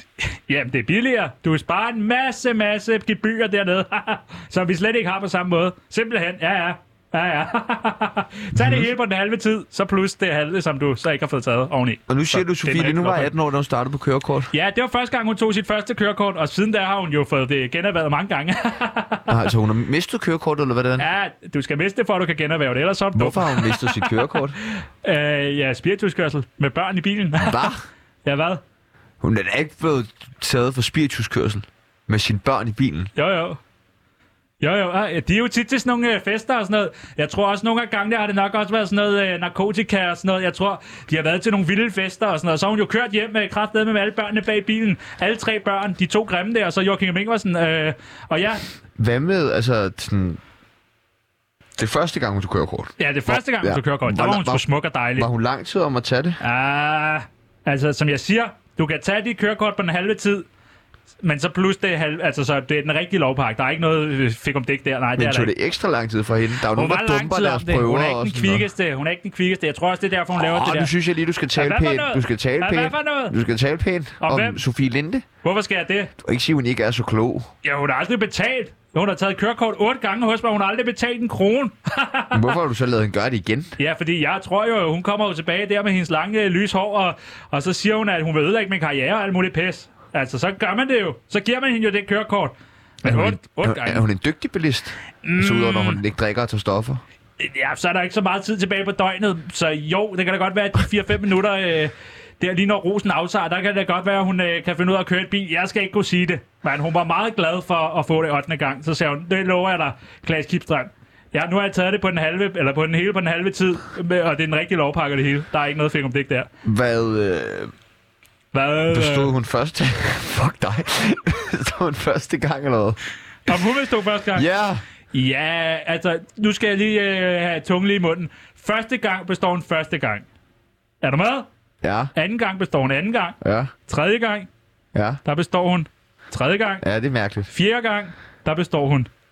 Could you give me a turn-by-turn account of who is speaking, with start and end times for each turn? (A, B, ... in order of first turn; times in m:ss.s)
0:00.2-0:13.3 A
0:08.6-0:08.9 B
0:12.1-0:14.5 B
0:14.5-0:19.4 A
0:19.3-0:21.1 B
0:21.0-0:27.7 A
0:23.2-0:24.6 B
0:27.4-0:27.8 B
0:28.2-0:28.6 A
0:29.2-0:33.1 B
0:33.2-0:33.6 A
0:34.6-0:48.7 A
0:49.0-0:50.4 B
0:51.8-0:56.4 B
0:53.0-0:55.3 A
0:56.4-1:00.5 A
1:01.2-1:05.5 A
1:05.2-1:08.7 B
1:06.7-1:10.9 A
1:10.4-1:15.2 B
1:11.6-1:13.4 A
1:14.2-1:14.6 A
1:15.4-1:16.1 A
1:16.2-1:17.5 B
1:17.6-1:22.5 A
1:22.3-1:23.8 B
1:23.8-1:34.0 A
1:33.0-1:37.0 B
1:35.2-1:36.0 A
1:37.4-1:56.5 A
1:56.6-1:57.7 B
1:58.5-1:59.3 A
1:58.9-2:03.0 B
2:03.5-2:04.5 A
2:04.4-2:04.8 B
2:05.1-2:10.3 A
2:11.0-2:11.5 A
2:11.8-2:12.1 B
2:12.2-2:14.5 A
2:13.4-2:13.7 B
2:14.9-2:15.2 B
2:15.2-2:16.8 A
2:16.8-2:17.5 B
2:17.5-2:19.1 A